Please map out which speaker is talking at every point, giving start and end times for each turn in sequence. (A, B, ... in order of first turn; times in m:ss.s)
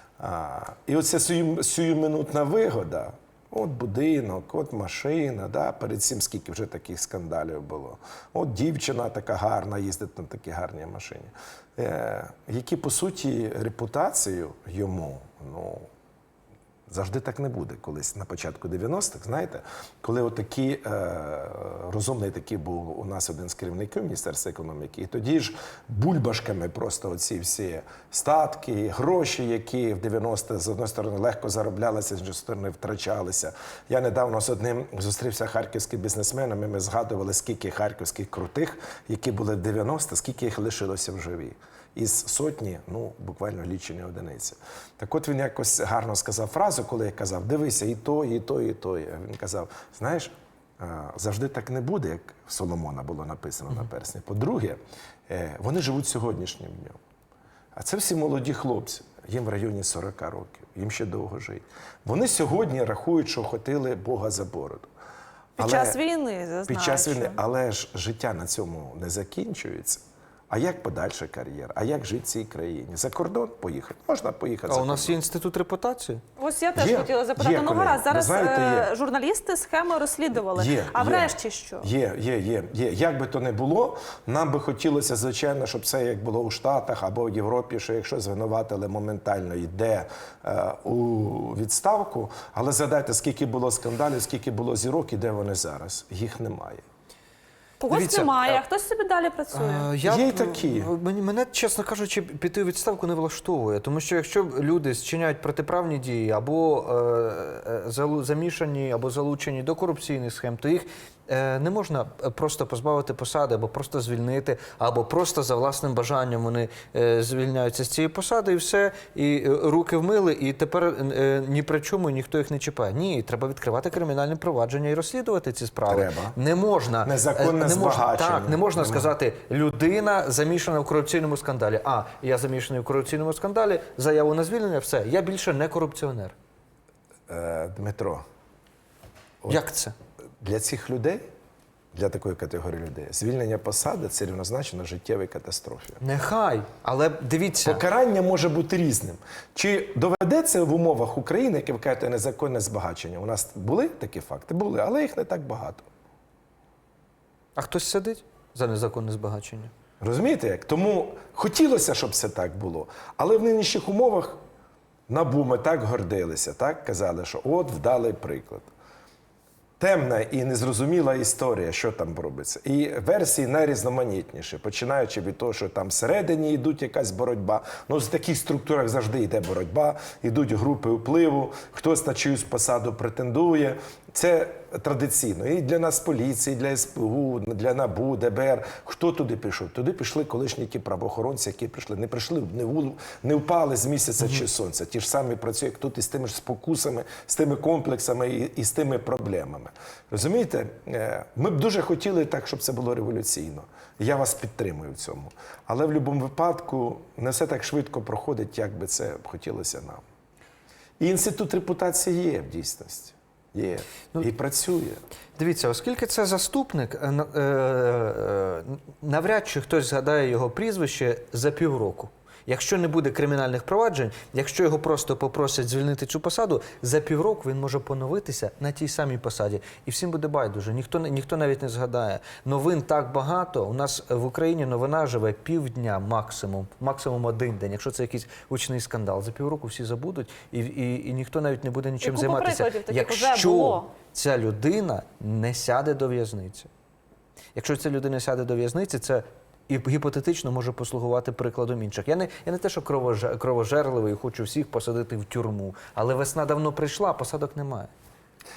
0:00.2-0:15.9 A
0:16.9-0:57.0 A
0:57.8-1:04.9 A
1:05.6-1:07.4 B
1:05.6-1:06.0 A
1:06.7-1:15.2 A
1:14.7-1:16.2 C
1:16.4-1:21.9 B
1:16.8-1:18.9 A
1:20.4-1:36.8 A
1:37.8-1:39.9 B
1:37.9-1:38.6 C
1:39.5-2:16.3 C
1:40.0-1:40.9 A
2:05.9-2:06.4 A
2:07.0-2:09.1 A
2:17.3-2:18.2 A
2:19.5-2:19.9 C
2:20.4-2:21.2 A
2:21.9-2:26.0 A
2:26.0-2:27.8 C
2:27.6-2:35.8 A
2:37.6-2:39.7 C
2:40.0-2:44.4 A
2:45.1-2:48.7 A
2:49.8-3:30.0 A
3:31.0-3:35.0 A
3:35.4-4:06.7 C
4:02.0-4:03.9 B
4:07.6-4:17.9 C